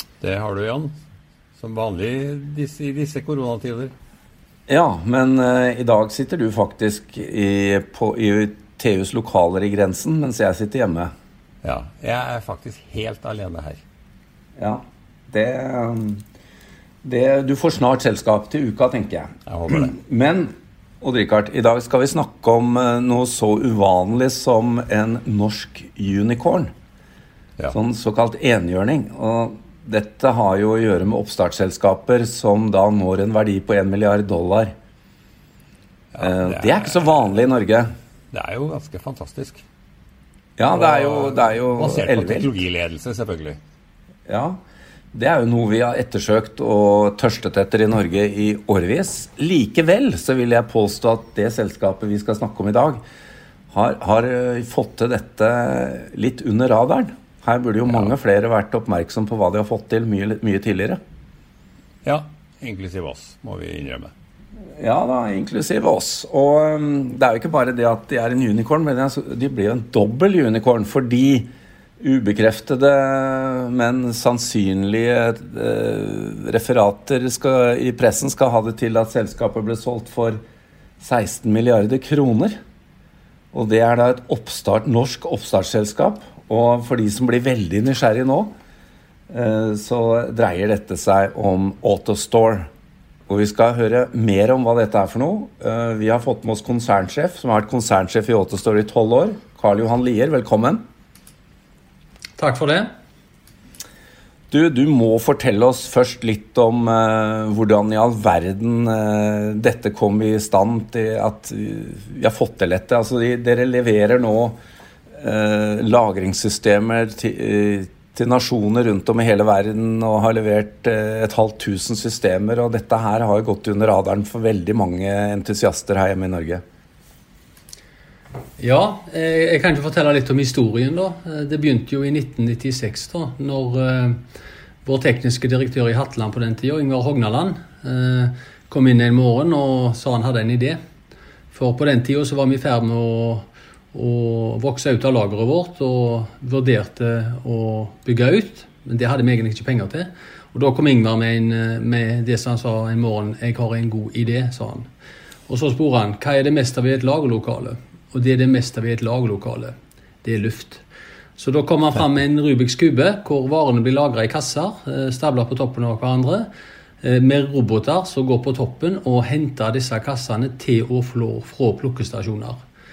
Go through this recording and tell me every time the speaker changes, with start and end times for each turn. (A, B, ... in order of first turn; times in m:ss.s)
0:00.2-0:00.9 A
0:01.6-0:03.9 A
0:04.7-0:11.1 B
0:11.6-0:13.8 A
0:14.6-0:16.2 B
0:17.0-0:26.7 B
0:19.5-0:19.9 A
0:27.7-0:34.7 B
0:36.1-0:37.4 A
0:36.2-0:37.9 B
0:38.3-0:39.6 A
0:40.6-0:42.5 B
0:40.7-0:43.6 A
0:44.3-0:44.6 B
0:45.1-0:53.0 B
0:53.7-1:01.0 B
1:02.0-1:04.1 A
1:04.8-1:11.5 B
1:12.0-1:20.4 B
1:21.0-1:22.6 B
1:23.5-1:28.5 B
1:29.3-1:32.7 B
1:33.3-1:40.8 B
1:42.4-1:42.9 C
1:44.5-1:54.6 B
1:55.2-2:06.6 B
2:08.6-2:14.2 C
2:14.8-2:20.8 C
2:21.5-2:34.9 C
2:35.5-2:40.8 C
2:41.4-2:46.5 C
2:47.0-2:52.6 C